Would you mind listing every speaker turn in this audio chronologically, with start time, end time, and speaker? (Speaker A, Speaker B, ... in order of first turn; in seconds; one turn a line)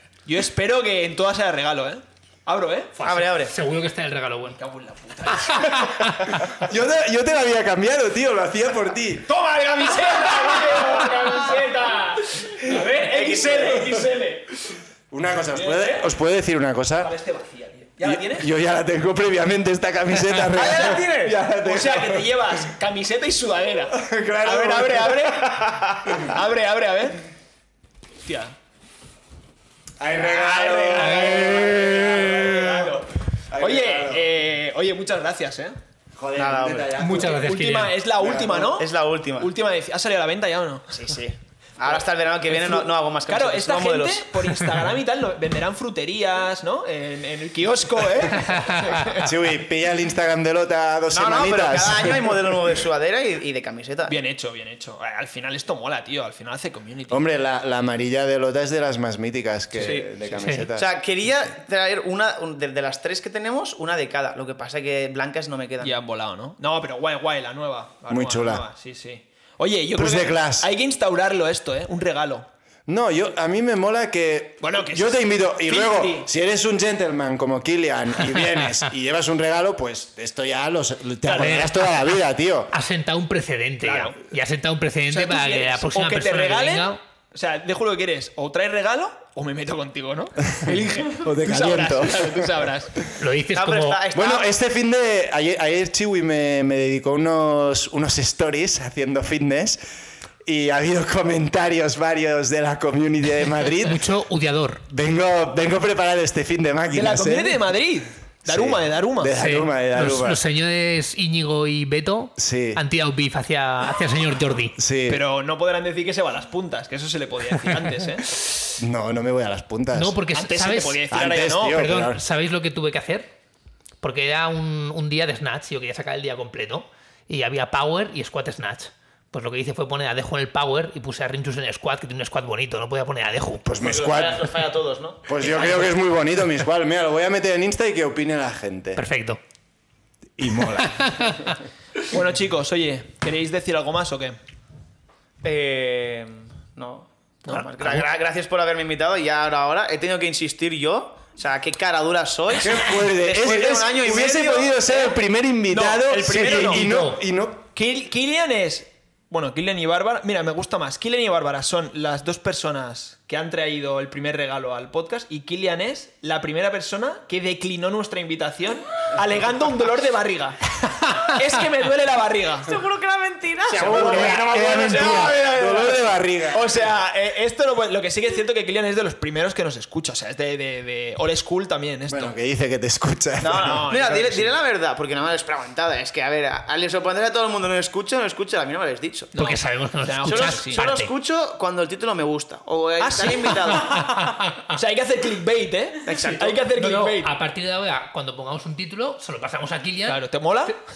Speaker A: 0.3-3.0
Speaker B: 3.0-4.6
Speaker C: 3.0-3.5
Speaker A: 4.5-5.9
Speaker B: 5.3-6.5
Speaker D: 6.5-9.3
Speaker A: 9.3-14.6
Speaker C: 13.0-13.9
Speaker D: 15.1-17.1
Speaker A: 15.5-16.1
Speaker A: 17.0-18.5
Speaker D: 18.0-22.7
Speaker C: 20.5-21.4
Speaker A: 21.5-27.2
Speaker D: 23.9-25.5
Speaker C: 25.3-26.4
Speaker A: 28.2-28.5
Speaker D: 30.0-34.3
Speaker A: 30.2-35.8
Speaker B: 31.0-32.4
Speaker D: 36.2-37.4
Speaker C: 36.4-37.0
Speaker B: 37.0-38.1
Speaker A: 37.2-41.1
Speaker D: 38.2-38.5
Speaker C: 38.2-39.5
Speaker C: 40.9-44.9
Speaker A: 42.5-49.3
Speaker B: 48.5-49.0
Speaker D: 49.1-52.6
Speaker C: 51.1-54.2
Speaker A: 54.1-57.2
Speaker D: 57.1-60.9
Speaker C: 59.8-60.1
Speaker B: 60.4-60.7
Speaker C: 60.7-66.0
Speaker A: 65.8-72.5
Speaker D: 68.1-68.7
Speaker D: 70.0-70.7
Speaker D: 72.9-82.7
Speaker A: 74.6-76.3
Speaker A: 81.2-81.7
Speaker B: 81.3-82.2
Speaker B: 82.7-87.0
Speaker A: 83.8-84.2
Speaker A: 85.1-93.0
Speaker D: 90.6-92.5
Speaker B: 93.2-94.0
Speaker C: 93.5-94.5
Speaker D: 94.1-99.8
Speaker D: 100.5-104.0
Speaker B: 103.8-104.8
Speaker D: 104.9-107.6
Speaker A: 106.9-109.4
Speaker D: 108.5-110.4
Speaker B: 109.3-114.8
Speaker D: 112.4-112.8
Speaker D: 114.8-115.2
Speaker A: 115.1-118.7
Speaker D: 118.8-120.2
Speaker B: 119.9-121.1
Speaker A: 120.3-121.8
Speaker D: 121.1-122.2
Speaker B: 121.7-123.3
Speaker B: 124.0-133.7
Speaker D: 133.6-134.5
Speaker C: 133.8-135.5
Speaker D: 135.3-139.0
Speaker B: 139.0-139.4
Speaker D: 140.4-141.5
Speaker B: 140.9-141.5
Speaker A: 142.0-144.4
Speaker C: 145.4-155.2
Speaker A: 147.5-148.1
Speaker D: 152.6-157.7
Speaker A: 155.7-157.1
Speaker B: 156.4-157.2
Speaker A: 157.8-172.8
Speaker B: 171.1-171.3
Speaker E: 172.7-174.7
Speaker C: 173.7-175.9
Speaker D: 173.8-176.7
Speaker B: 174.0-175.4
Speaker A: 174.0-176.0
Speaker C: 176.5-176.9
Speaker A: 176.5-182.3
Speaker D: 182.1-183.8
Speaker C: 183.4-189.3
Speaker A: 183.5-184.6
Speaker A: 189.3-190.9
Speaker B: 189.3-191.1
Speaker C: 190.2-194.1
Speaker A: 193.0-194.1
Speaker B: 193.9-194.8
Speaker A: 194.7-197.3
Speaker C: 196.0-196.6
Speaker B: 196.6-200.8
Speaker A: 200.1-200.8